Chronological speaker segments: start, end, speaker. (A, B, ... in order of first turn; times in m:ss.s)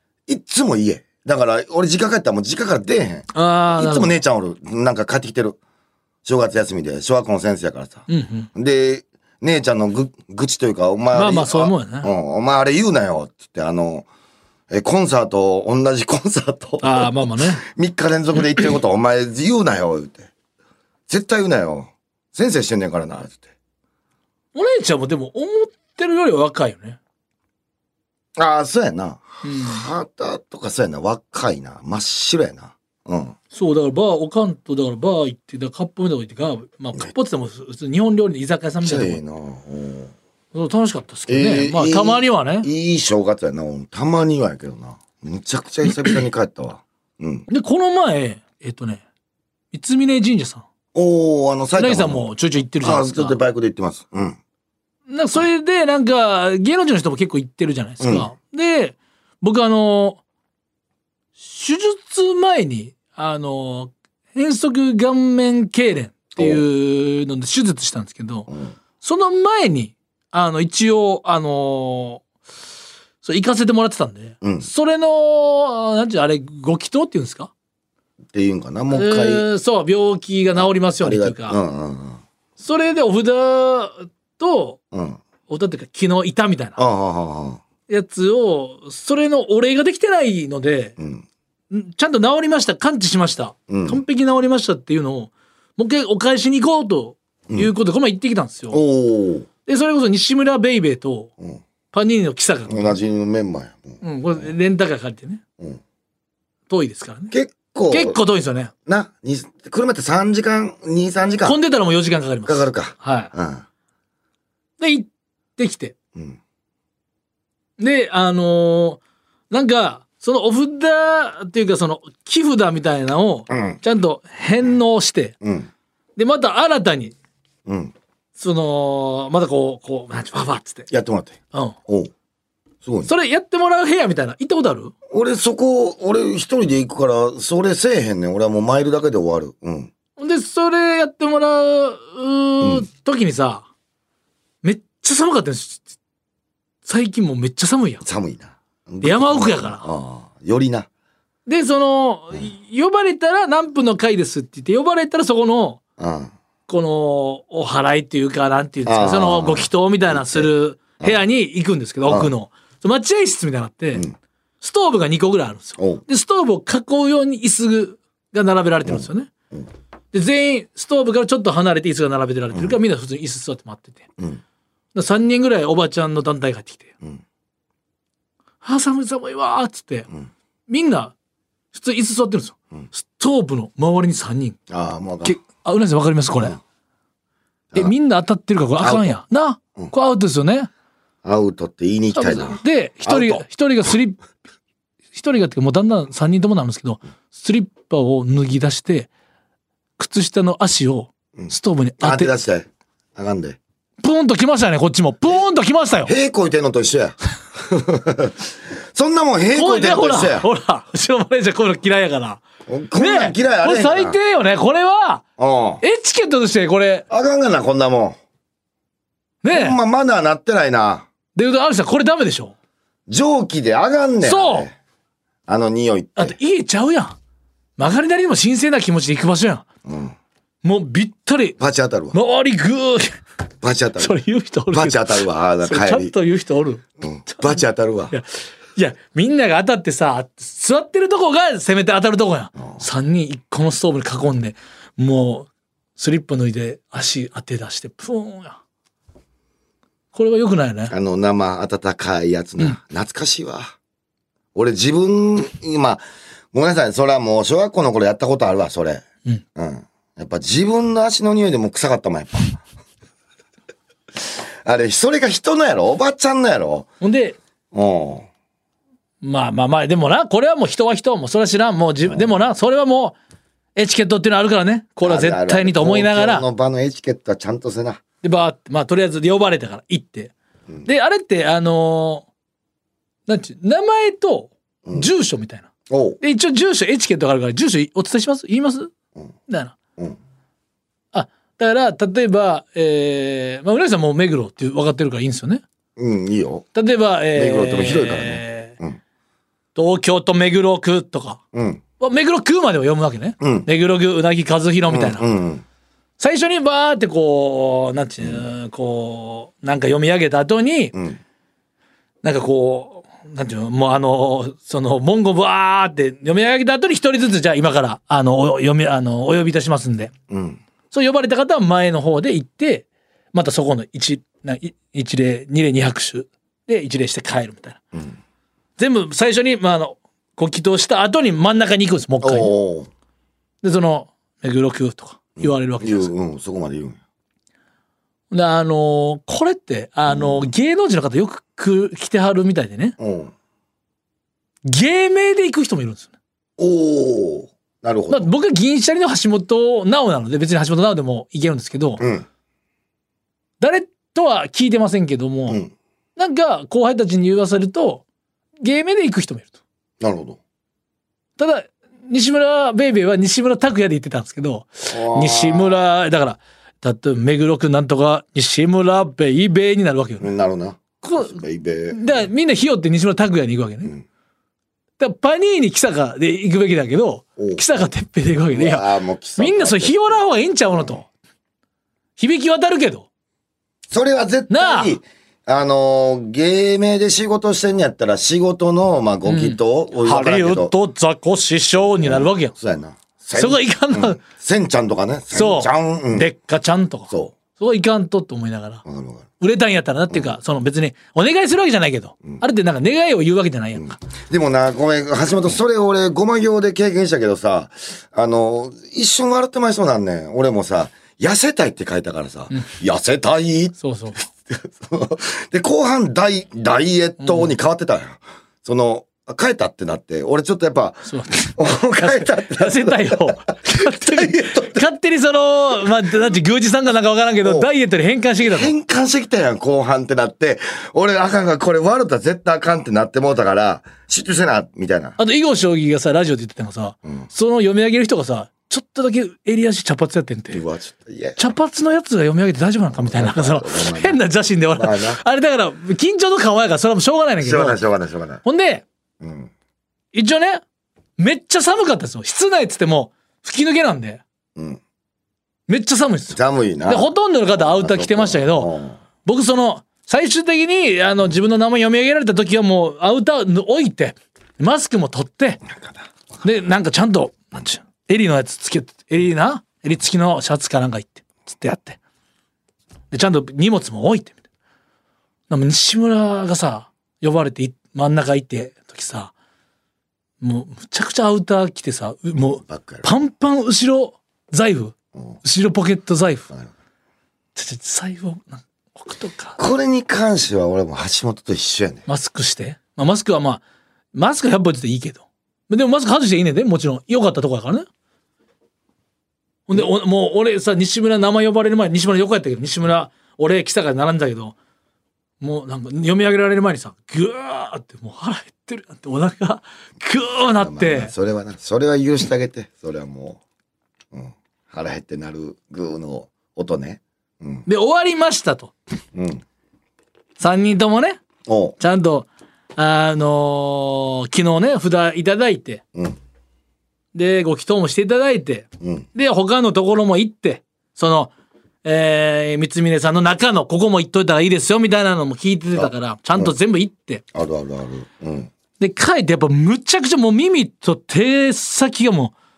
0:00.3-0:05.6 A
0:03.3-0:04.2 B
0:06.2-0:14.1 A
0:08.1-0:08.5 B
0:11.1-0:12.1 B
0:14.7-0:20.3 A
0:16.8-0:17.6 B
0:21.1-0:23.5 A
0:24.5-0:27.0 B
0:28.4-0:33.4 A
0:29.4-0:29.8 B
0:33.5-0:39.2 B
0:38.8-0:40.1 A
0:40.5-0:42.7 B
0:41.3-0:47.5 A
0:47.5-0:49.0 B
0:49.7-0:50.7 B
0:50.9-0:52.3 A
0:51.8-0:53.4 B
0:52.8-0:54.4 A
0:55.1-1:00.2 B
0:58.0-0:58.3 A
1:01.4-1:08.5 B
1:06.4-1:06.6 A
1:09.0-1:12.2 B
1:13.2-1:17.5 B
1:14.4-1:14.7 A
1:18.3-1:19.5 A
1:18.9-1:21.6 B
1:20.6-1:22.2 A
1:22.6-1:24.8 B
1:24.9-1:25.2 A
1:25.5-1:26.8 B
1:26.8-1:27.6 A
1:27.9-1:31.0 B
1:31.0-1:31.2 A
1:31.7-1:38.8 B
1:33.7-1:34.0 A
1:38.7-1:39.5 A
1:39.7-1:41.3 B
1:41.9-1:43.0 B
1:42.7-1:44.0 A
1:44.0-1:45.4 B
1:46.7-1:47.3 B
1:47.3-1:48.2 A
1:47.9-1:48.7 B
1:48.9-1:51.6 A
1:51.4-1:53.3 B
1:52.5-1:53.6 A
1:54.8-1:55.9 B
1:57.8-2:05.4 B
2:03.5-2:03.8 A
2:05.4-2:05.7 A
2:06.2-2:07.2 B
2:07.7-2:07.9 A
2:08.4-2:10.9 B
2:10.9-2:12.1 A
2:12.8-2:13.1 A
2:13.1-2:14.9 B
2:15.1-2:19.9 A
2:20.2-2:23.7 B
2:22.6-2:22.9 A
2:24.6-2:25.8 B
2:26.8-2:28.0 B
2:28.0-2:30.9 A
2:29.0-2:29.8 B
2:31.5-2:35.8 B
2:36.0-2:36.3 A
2:36.7-2:44.1 B
2:38.9-2:40.5 A
2:42.1-2:42.3 A
2:44.6-2:49.3 B
2:45.8-2:46.0 A
2:48.9-2:49.7 A
2:50.1-2:54.1 B
2:54.9-2:56.9 B
2:58.6-3:00.1 B
3:00.7-3:01.1 B
3:01.7-3:04.6 B
3:04.7-3:05.4 A
3:05.2-3:06.6 B
3:07.8-3:10.7 B
3:08.8-3:09.2 A
3:11.2-3:13.4 A
3:12.1-3:14.2 B
3:15.2-3:19.1 B
3:20.0-3:22.3 B
3:21.4-3:23.6 A
3:24.0-3:26.1 B
3:26.0-3:30.5 A
3:29.5-3:32.4 B
3:32.7-3:34.2 A
3:33.0-3:35.2 B
3:35.4-3:35.8 A
3:35.8-3:37.1 B
3:37.1-3:38.2 A
3:39.4-3:39.8 B
3:39.5-3:41.1 A
3:41.4-3:42.6 B
3:43.1-3:44.8 A
3:44.2-3:44.7 B
3:45.5-3:46.4 A
3:46.2-3:47.2 B
3:47.8-3:49.7 B
3:49.9-3:50.2 A
3:50.6-3:51.6 B
3:51.6-3:52.2 A
3:52.1-3:53.2 B
3:53.6-3:54.2 A
3:54.0-3:57.6 B
3:54.7-3:56.1 A
3:57.0-3:58.2 A
3:58.1-4:08.6 B
4:02.6-4:02.8 A
4:10.1-4:10.9 B
4:10.9-4:13.8 A
4:14.6-4:16.0 A
4:16.5-4:19.0 A
4:19.6-4:22.6 A
4:24.3-4:26.9 A
4:27.0-4:27.4 B
4:27.7-4:28.3 A
4:29.2-4:33.2 B
4:33.8-4:36.5 B
4:35.0-4:38.0 A
4:38.2-4:40.3 B
4:40.8-4:42.3 B
4:43.3-4:45.7 B
4:45.9-4:46.2 A
4:46.2-4:48.9 B
4:49.5-4:49.8 B
4:51.1-4:55.6 B
4:56.0-4:56.7 A
4:56.7-4:58.8 B
4:57.4-4:59.0 A
4:59.8-5:01.4 B
5:01.5-5:01.8 A
5:02.0-5:05.3 B
5:03.4-5:03.7 A
5:04.9-5:05.6 A
5:06.2-5:11.0 B
5:08.2-5:08.5 A
5:10.9-5:11.2 A
5:12.2-5:20.1 B
5:20.3-5:20.6 A
5:20.9-5:27.8 B
5:28.8-5:32.5 B
5:32.2-5:32.9 A
5:33.6-5:36.1 B
5:35.4-5:37.0 A
5:38.3-5:43.0 B
5:40.1-5:40.5 A
5:43.0-5:43.3 A
5:44.6-5:46.1 B
5:46.6-5:48.3 A
5:48.1-5:52.0 B
5:52.0-5:52.3 A
5:53.6-5:55.6 B
5:56.2-5:58.0 B
5:58.6-5:59.6 B
6:00.0-6:00.4 A
6:01.4-6:10.3 B
6:04.9-6:05.8 A
6:10.2-6:12.3 A
6:11.0-6:13.9 B
6:15.0-6:21.0 B
6:17.4-6:17.9 A
6:18.5-6:21.1 A
6:22.2-6:23.1 B
6:23.9-6:30.7 A
6:24.5-6:25.0 B
6:29.3-6:32.5 B
6:31.9-6:36.3 A
6:33.4-6:34.2 B
6:35.3-6:38.8 B
6:37.1-6:37.4 A
6:38.9-6:39.3 A
6:39.4-6:43.9 B
6:40.1-6:40.4 A
6:43.8-6:53.8 A
6:53.8-6:54.3 B
6:54.3-7:04.8 A
6:57.2-6:57.5 B
7:01.1-7:08.7 B
7:07.4-7:07.7 A
7:08.5-7:15.2 A
7:15.2-7:20.6 B
7:20.5-7:21.4 A
7:21.4-7:27.8 B
7:22.9-7:24.2 A
7:24.8-7:25.2 A
7:27.4-7:28.4 A
7:28.4-7:28.8 B
7:29.2-7:29.5 A
7:30.1-7:30.6 B
7:31.2-7:34.2 B
7:34.6-7:34.8 A
7:35.7-7:38.7 B
7:36.3-7:39.0 A
7:39.2-7:45.6 B
7:45.7-7:46.0 A
7:46.4-7:52.0 B
7:53.1-7:54.4 B
7:55.5-7:59.3 B
8:00.4-8:06.5 B
8:02.6-8:03.1 A
8:07.6-8:09.6 B
8:09.6-8:12.1 A
8:12.1-8:13.6 B
8:14.1-8:17.9 B
8:19.7-8:24.6 B
8:25.4-8:31.1 B
8:30.6-8:33.4 A
8:34.1-8:37.7 A
8:37.7-8:38.7 B
8:39.1-8:39.4 A
8:40.4-8:41.2 B
8:41.5-8:41.8 A
8:41.8-8:45.8 B
8:47.1-8:51.3 B
8:48.8-8:49.1 A
8:51.8-8:57.2 B
8:55.8-8:56.5 A
8:57.3-8:58.5 A
8:58.8-9:02.3 B